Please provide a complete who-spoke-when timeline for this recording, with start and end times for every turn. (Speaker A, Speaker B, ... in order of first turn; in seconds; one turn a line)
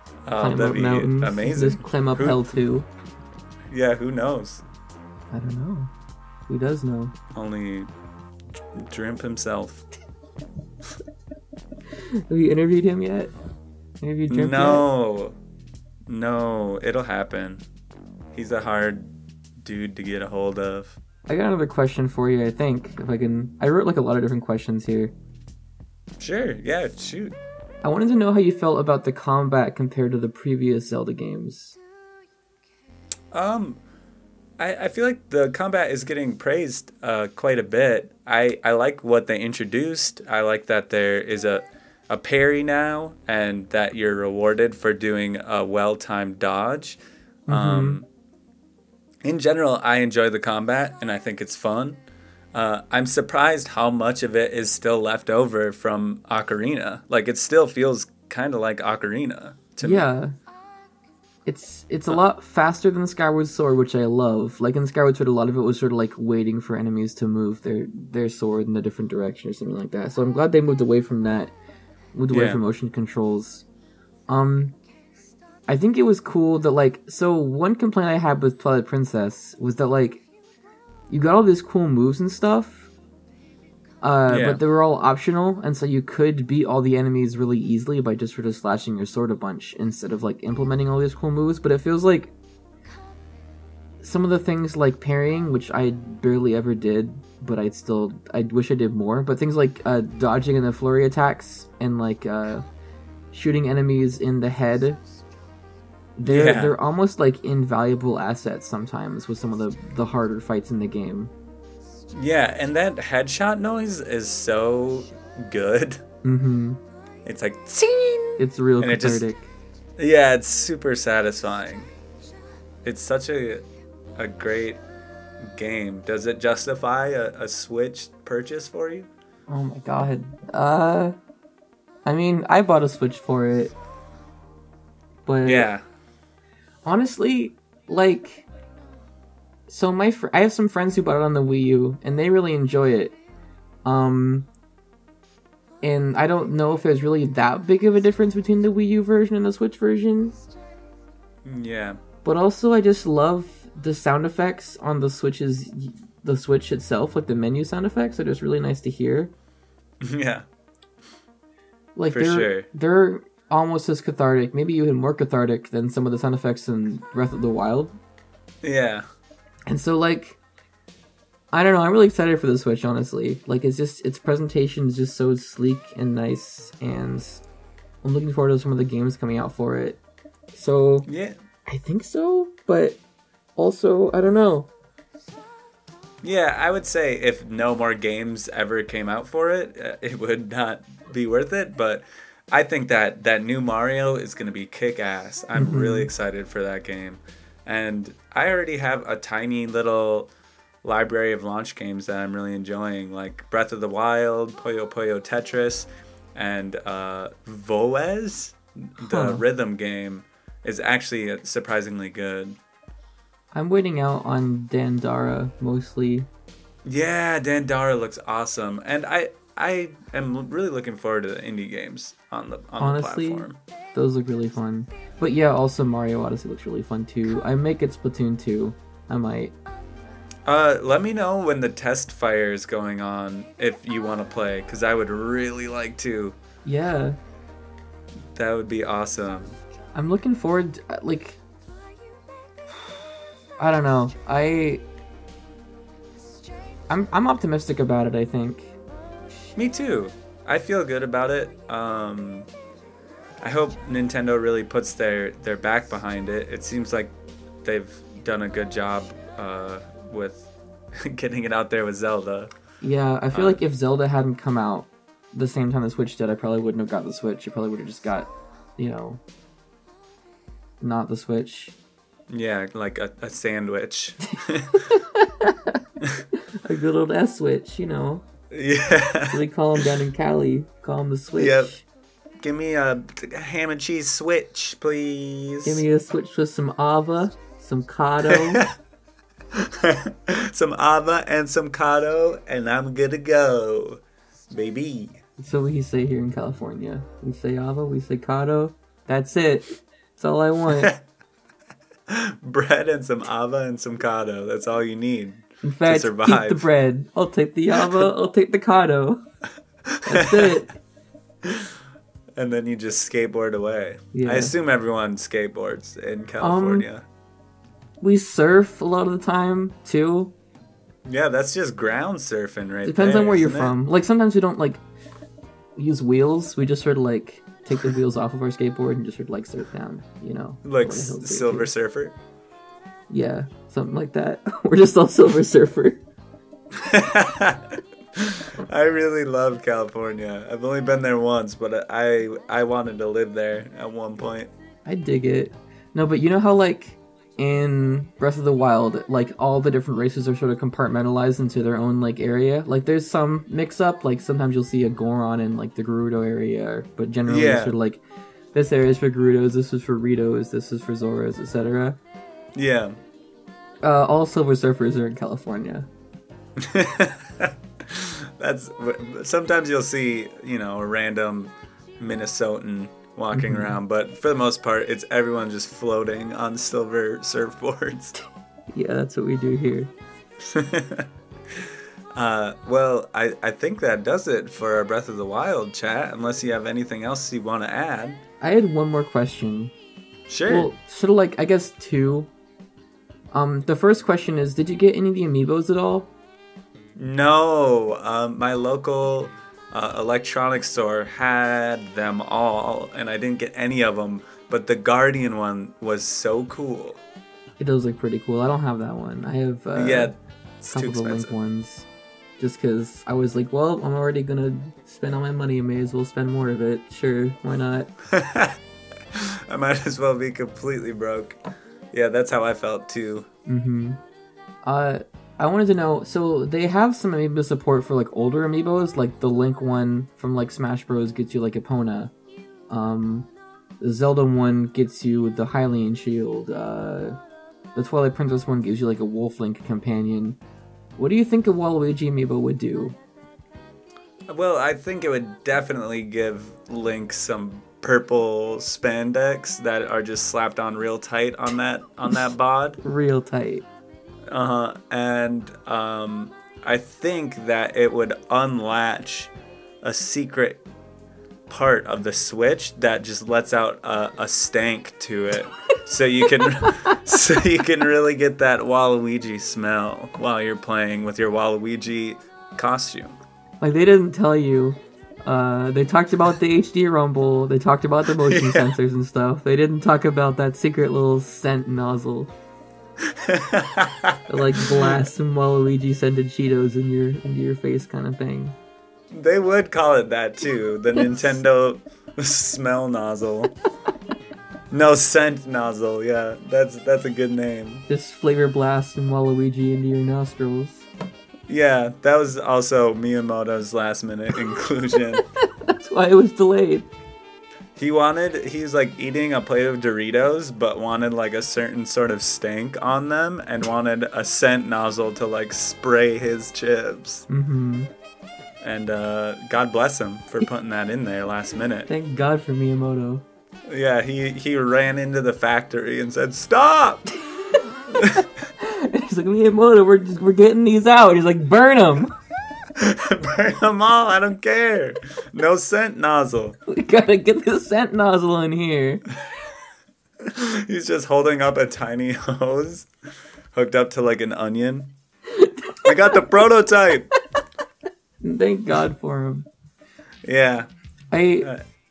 Speaker A: 0.3-2.4
Speaker B: 0.4-2.9
Speaker A: 3.7-4.6
Speaker B: 5.3-5.9
Speaker B: 6.5-7.1
Speaker A: 7.3-7.9
Speaker A: 8.8-9.8
Speaker B: 11.9-13.3
Speaker B: 14.0-14.9
Speaker A: 14.3-15.3
Speaker A: 16.1-17.6
Speaker A: 18.3-21.0
Speaker B: 21.3-25.1
Speaker A: 26.2-27.4
Speaker B: 27.8-31.8
Speaker A: 33.3-33.8
Speaker A: 34.6-48.1
Speaker B: 47.5-48.0
Speaker A: 49.2-60.1
Speaker B: 59.8-60.4
Speaker B: 61.5-71.5
Speaker B: 72.1-73.7
Speaker A: 72.3-72.6
Speaker B: 74.3-74.8
Speaker B: 75.7-80.2
Speaker B: 81.1-82.9
Speaker B: 84.0-92.3
Speaker A: 84.3-84.6
Speaker B: 94.0-102.6
Speaker B: 103.3-105.0
Speaker B: 106.2-111.3
Speaker A: 106.2-106.8
Speaker A: 112.1-116.0
Speaker B: 116.2-116.8
Speaker A: 117.2-119.3
Speaker B: 118.4-119.5
Speaker A: 120.0-121.9
Speaker A: 122.8-123.6
Speaker A: 124.2-124.8
Speaker A: 125.4-129.1
Speaker B: 129.5-131.2
Speaker B: 132.1-133.7
Speaker B: 135.3-135.7
Speaker A: 135.4-135.8
Speaker B: 136.8-138.5
Speaker B: 139.7-143.2
Speaker B: 143.8-144.5
Speaker B: 145.8-150.4
Speaker A: 151.4-152.0
Speaker B: 152.2-159.3
Speaker A: 160.0-160.4
Speaker B: 162.0-168.0
Speaker A: 162.1-162.7
Speaker A: 168.6-169.1
Speaker B: 169.7-170.4
Speaker B: 171.5-177.4
Speaker B: 178.0-180.0
Speaker B: 180.5-181.1
Speaker A: 181.1-181.4
Speaker B: 181.7-183.0
Speaker B: 183.6-184.7
Speaker A: 186.2-200.3
Speaker B: 195.6-196.1
Speaker A: 200.8-212.6
Speaker B: 209.0-209.4
Speaker B: 213.5-216.3
Speaker A: 216.9-223.6
Speaker B: 222.8-229.5
Speaker A: 230.5-236.4
Speaker B: 236.7-237.2
Speaker A: 238.3-239.6
Speaker B: 239.9-241.4
Speaker B: 242.7-243.0
Speaker B: 243.6-244.8
Speaker B: 246.9-248.8
Speaker A: 249.6-252.5
Speaker A: 253.4-262.5
Speaker B: 262.8-269.2
Speaker A: 263.3-263.6
Speaker B: 270.8-271.8
Speaker A: 272.3-274.8
Speaker B: 274.9-275.8
Speaker B: 276.6-278.2
Speaker A: 278.5-279.4
Speaker B: 279.3-281.8
Speaker A: 281.4-281.7
Speaker A: 282.4-285.9
Speaker B: 285.6-288.6
Speaker A: 288.3-288.7
Speaker A: 289.5-295.2
Speaker B: 295.4-300.9
Speaker A: 302.1-306.7
Speaker B: 305.6-309.2
Speaker A: 307.8-308.1
Speaker A: 309.9-310.6
Speaker B: 310.1-310.7
Speaker A: 311.4-311.7
Speaker A: 312.4-317.1
Speaker B: 314.1-314.5
Speaker B: 316.4-316.9
Speaker B: 318.0-320.3
Speaker A: 321.1-323.8
Speaker B: 322.8-324.8
Speaker B: 325.8-331.7
Speaker A: 330.6-332.1
Speaker B: 333.1-336.0
Speaker A: 336.7-344.5
Speaker B: 344.9-358.0
Speaker A: 357.3-357.7
Speaker B: 358.5-362.0
Speaker A: 362.6-363.0
Speaker B: 363.8-365.9
Speaker A: 366.6-378.2
Speaker B: 373.3-373.8
Speaker B: 378.7-379.9
Speaker A: 380.4-388.2
Speaker B: 388.4-389.7
Speaker A: 390.3-390.7
Speaker B: 390.5-392.3
Speaker B: 393.3-396.1
Speaker A: 397.0-407.0
Speaker B: 407.6-410.1
Speaker A: 409.8-411.4
Speaker B: 410.7-411.9
Speaker B: 412.4-417.9
Speaker A: 418.1-418.6
Speaker A: 419.1-421.4
Speaker A: 421.9-423.3
Speaker B: 423.5-424.0
Speaker B: 424.6-432.1
Speaker B: 432.7-433.3
Speaker B: 433.8-437.2
Speaker B: 437.8-440.4
Speaker B: 441.0-443.0
Speaker A: 444.3-452.8
Speaker B: 452.8-453.7
Speaker A: 454.3-460.6
Speaker A: 461.5-473.2
Speaker B: 473.6-482.3
Speaker A: 478.1-478.8
Speaker A: 483.1-485.0
Speaker B: 484.3-488.6
Speaker A: 489.1-493.5
Speaker A: 494.7-497.9
Speaker B: 497.9-500.9
Speaker A: 501.5-505.2
Speaker B: 505.6-506.9
Speaker A: 507.8-517.2
Speaker B: 517.3-517.9
Speaker A: 518.6-521.9
Speaker B: 521.9-523.2
Speaker A: 523.7-527.1
Speaker A: 528.0-528.3
Speaker B: 528.2-532.1
Speaker A: 532.8-536.6
Speaker B: 536.7-539.0
Speaker A: 540.2-542.9
Speaker A: 543.5-544.9
Speaker B: 545.3-546.3
Speaker A: 545.8-547.1
Speaker B: 548.2-549.5
Speaker A: 550.2-550.7
Speaker B: 551.1-551.5